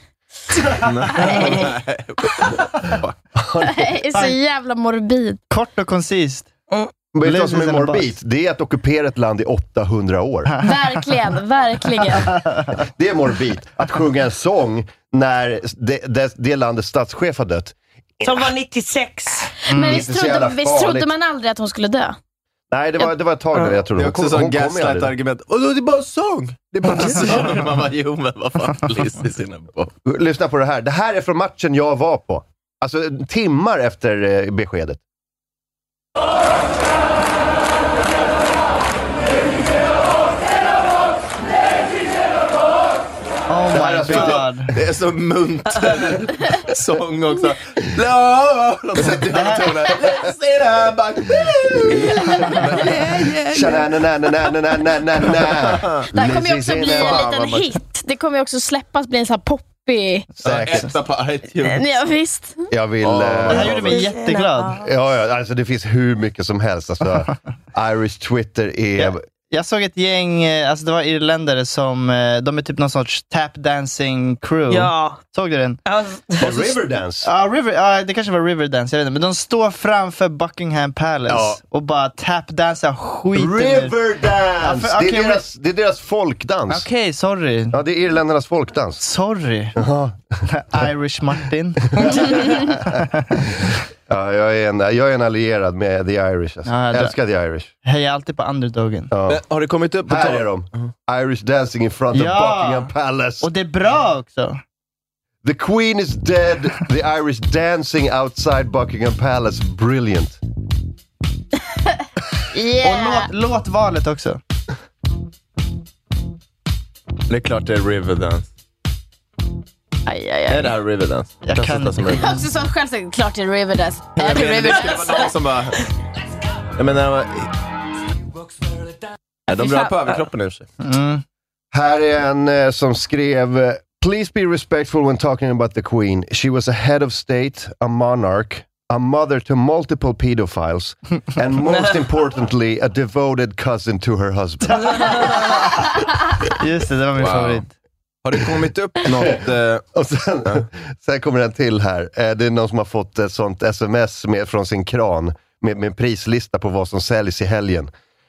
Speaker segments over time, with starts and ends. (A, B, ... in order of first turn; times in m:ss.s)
0:00.8-0:03.2 A
0:01.2-0:01.5 B
0:03.4-0:04.0 B
0:03.7-0:05.4 C
0:05.5-0:06.5 D
0:07.1-0:10.5 B
0:07.2-0:08.1 D
0:10.6-0:12.4 C
0:12.2-0:12.8 D
0:12.8-0:18.5 B
0:18.2-0:19.6 E
0:19.7-0:20.0 D
0:19.7-0:22.2 C
0:19.8-0:21.1 B
0:22.7-0:25.1 B
0:24.0-0:30.0 A
0:30.0-0:35.0 B
0:43.5-0:44.7 D
0:43.7-0:53.9 A
0:43.8-0:44.5 B
0:49.3-0:49.9 D
0:51.8-0:52.3 B
0:53.5-0:57.6 B
0:55.3-0:56.1 A
0:56.1-1:00.3 C
0:56.9-0:57.6 A
1:00.4-1:00.9 B
1:00.4-1:01.9 A
1:01.6-1:02.7 C
1:02.7-1:04.0 B
1:03.0-1:04.1 A
1:03.5-1:04.8 D
1:04.0-1:04.9 E
1:04.8-1:09.2 B
1:09.0-1:15.8 D
1:14.7-1:15.2 E
1:15.9-1:16.8 E
1:16.4-1:17.3 B
1:17.2-1:24.0 D
1:21.3-1:21.6 B
1:23.3-1:26.9 B
1:24.6-1:25.4 D
1:26.7-1:27.8 D
1:27.7-1:29.0 B
1:29.0-1:29.8 D
1:29.8-1:30.4 B
1:30.5-1:33.5 D
1:32.0-1:32.7 B
1:34.1-1:37.7 B
1:36.7-1:37.2 D
1:37.8-1:39.1 D
1:39.1-1:39.4 B
1:39.3-1:40.9 A
1:40.0-1:43.5 B
1:42.1-1:44.6 D
1:45.4-1:50.4 B
1:52.5-1:53.3 C
1:52.8-1:54.4 D
1:57.3-1:58.5 A
2:00.1-2:00.8 C
2:00.5-2:02.4 A
2:01.4-2:02.2 D
2:02.1-2:05.4 C
2:04.2-2:05.8 A
2:06.8-2:07.5 A
2:09.5-2:10.7 A
2:09.5-2:09.9 C
2:10.8-2:11.2 D
2:11.7-2:25.5 B
2:24.8-2:25.4 D
2:26.6-2:27.7 D
2:27.2-2:27.6 A
2:28.2-2:29.9 A
2:29.0-2:29.4 B
2:29.9-2:37.9 B